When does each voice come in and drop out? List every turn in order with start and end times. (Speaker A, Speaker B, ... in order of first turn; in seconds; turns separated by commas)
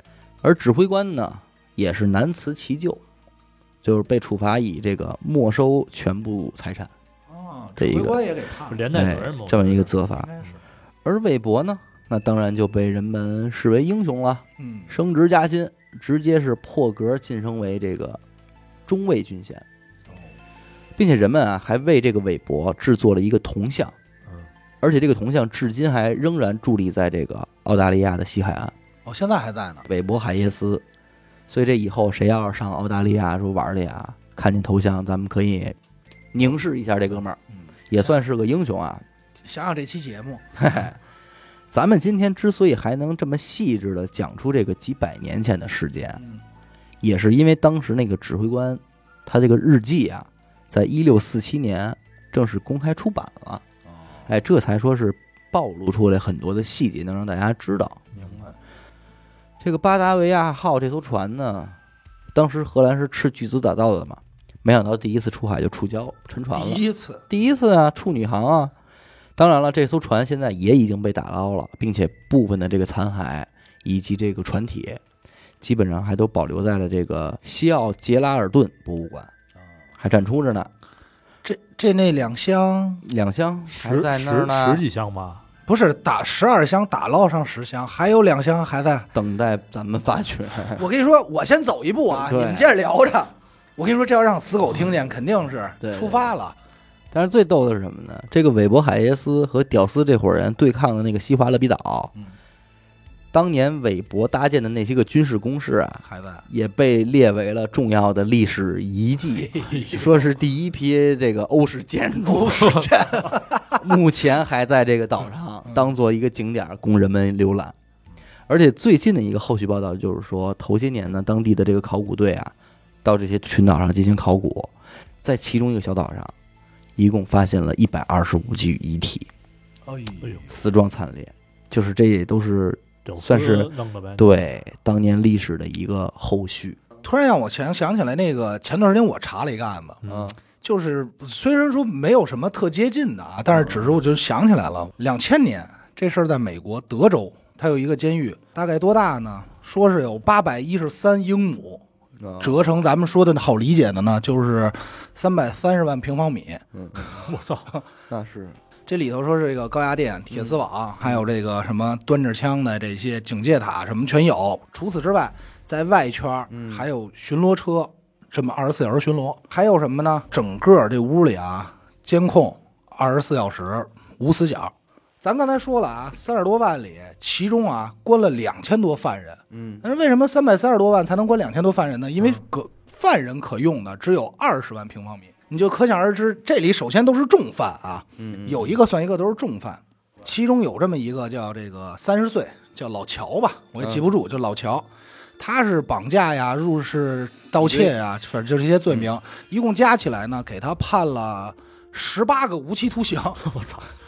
Speaker A: 0.4-3.0, Speaker A: 3.8-6.9, Speaker B: 7.3-8.9, Speaker A: 7.8-8.2, Speaker C: 8.7-9.9, Speaker A: 8.9-10.3, Speaker B: 10.1-10.6, Speaker A: 11.1-18.2, Speaker B: 14.6-14.9, Speaker A: 18.9-19.6, Speaker A: 21.0-23.9, Speaker A: 24.8-28.7, Speaker B: 29.1-29.9, Speaker A: 29.9-30.8, Speaker A: 31.5-35.8, Speaker A: 36.3-37.4, Speaker B: 37.5-38.1, Speaker A: 37.9-39.0, Speaker B: 39.4-40.5, Speaker A: 40.6-41.0, Speaker A: 41.7-46.2, Speaker A: 47.0-53.6, Speaker B: 54.0-54.3, Speaker A: 54.3-58.1, Speaker B: 58.1-58.5, Speaker A: 59.6-61.8, Speaker A: 62.3-68.7, Speaker B: 66.5-67.2, Speaker A: 69.4-75.0, Speaker A: 75.6-79.3, Speaker A: 80.0-80.7, Speaker B: 81.4-83.0, Speaker A: 83.0-84.8, Speaker C: 83.7-85.4, Speaker B: 85.7-89.1, Speaker A: 89.1-90.8, Speaker B: 90.8-96.6, Speaker A: 92.1-92.7, Speaker A: 95.8-96.3, Speaker A: 97.1-102.1, Speaker A: 103.3-117.8, Speaker B: 106.0-106.5, Speaker B: 109.3-110.2, Speaker C: 109.7-110.0, Speaker B: 112.3-113.8, Speaker A: 118.5-122.5, Speaker A: 123.0-124.7, Speaker A: 125.2-126.3, Speaker A: 127.0-129.3, Speaker B: 129.8-130.5, Speaker C: 130.2-130.5, Speaker A: 130.5-136.8, Speaker C: 133.1-134.3, Speaker B: 137.0-140.0, Speaker C: 140.0-140.3, Speaker A: 140.1-140.4, Speaker B: 140.6-151.8, Speaker A: 143.6-143.8, Speaker A: 152.2-152.6, Speaker B: 152.4-156.7, Speaker A: 156.7-157.2, Speaker C: 157.1-157.7, Speaker A: 158.1-158.6, Speaker B: 158.9-203.4, Speaker A: 166.5-166.9, Speaker A: 179.5-179.8, Speaker A: 188.2-188.8, Speaker A: 193.8-194.1, Speaker A: 197.6-197.9, Speaker C: 203.5-203.9